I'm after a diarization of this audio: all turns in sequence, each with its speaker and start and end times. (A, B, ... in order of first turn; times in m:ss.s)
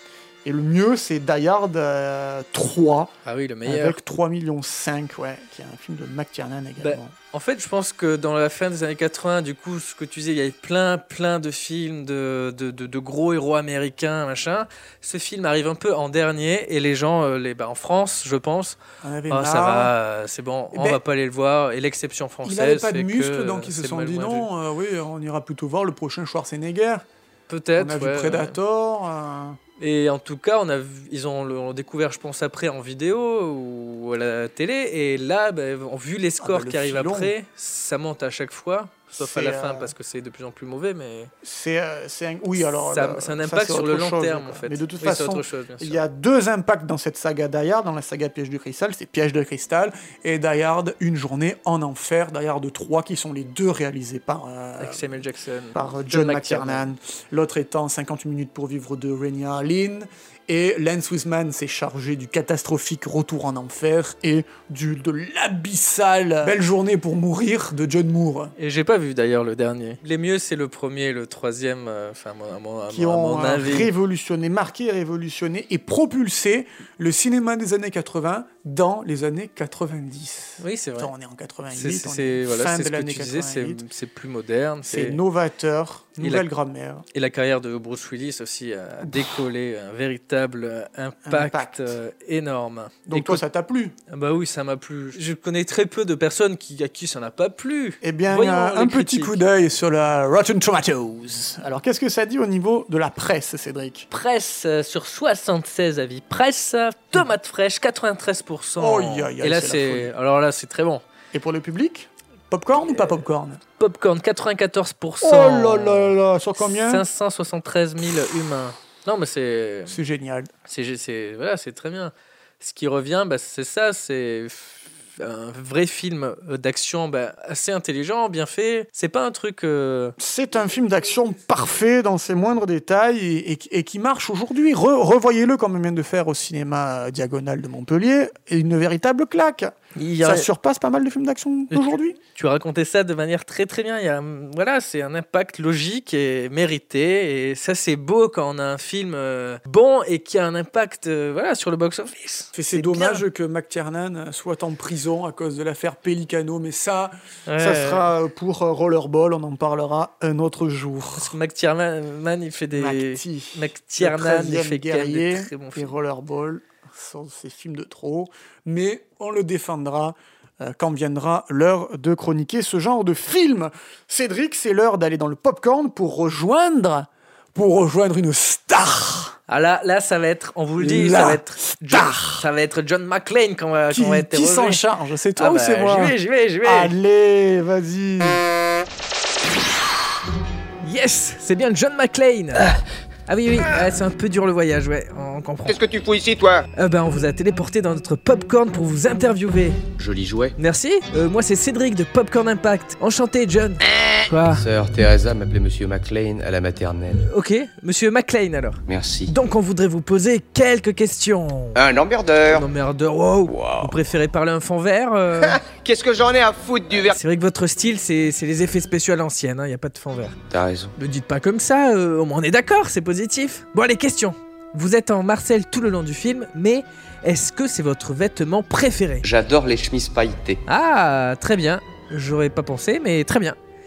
0:00.4-0:03.1 A
0:03.2-0:04.0 B
0:03.6-0:07.1 A
0:06.8-0:18.8 B
0:19.0-0:19.9 A
0:19.3-0:24.5 B
0:20.7-0:21.0 A
0:22.4-0:27.0 A
0:27.5-0:28.6 B
0:27.8-0:29.6 A
0:29.8-0:41.3 B
0:36.4-0:37.3 A
0:39.2-0:39.9 A
0:41.4-0:55.2 A
0:42.6-0:46.0 B
0:54.8-0:56.9 B
0:55.7-1:08.5 A
1:08.6-1:13.9 B
1:12.9-1:23.8 A
1:20.6-1:21.1 B
1:21.7-1:25.2 B
1:24.8-1:27.0 A
1:26.2-1:26.5 B
1:27.1-1:33.4 B
1:29.0-1:29.4 A
1:31.2-1:31.9 A
1:33.1-1:33.9 A
1:34.1-1:39.4 B
1:38.0-1:44.1 A
1:44.1-1:51.0 B
1:48.8-1:50.1 A
1:51.3-1:53.6 A
1:53.8-2:00.0 B
1:55.2-1:57.0 A
1:59.9-2:00.5 A
2:00.7-2:10.1 B
2:10.2-2:22.2 A
2:20.0-2:20.4 B
2:21.7-2:33.2 B
2:32.5-2:41.3 A
2:37.5-2:38.0 B
2:41.2-2:45.9 B
2:42.7-2:59.4 A
2:59.5-3:04.8 B
3:00.8-3:02.5 A
3:03.9-3:08.4 A
3:05.4-3:06.9 B
3:10.8-3:15.8 B
3:15.6-3:16.6 C
3:16.8-3:19.8 B
3:20.0-3:20.5 D
3:20.6-3:24.6 B
3:24.5-3:27.2 D
3:27.2-3:31.8 B
3:28.9-3:29.3 D
3:31.8-3:32.2 D
3:32.0-3:32.6 C
3:32.5-3:35.6 B
3:33.5-3:33.9 D
3:35.4-3:37.2 C
3:37.0-3:40.4 B
3:40.5-3:40.9 D
3:41.0-3:49.2 B
3:49.2-3:50.6 D
3:50.7-3:53.6 B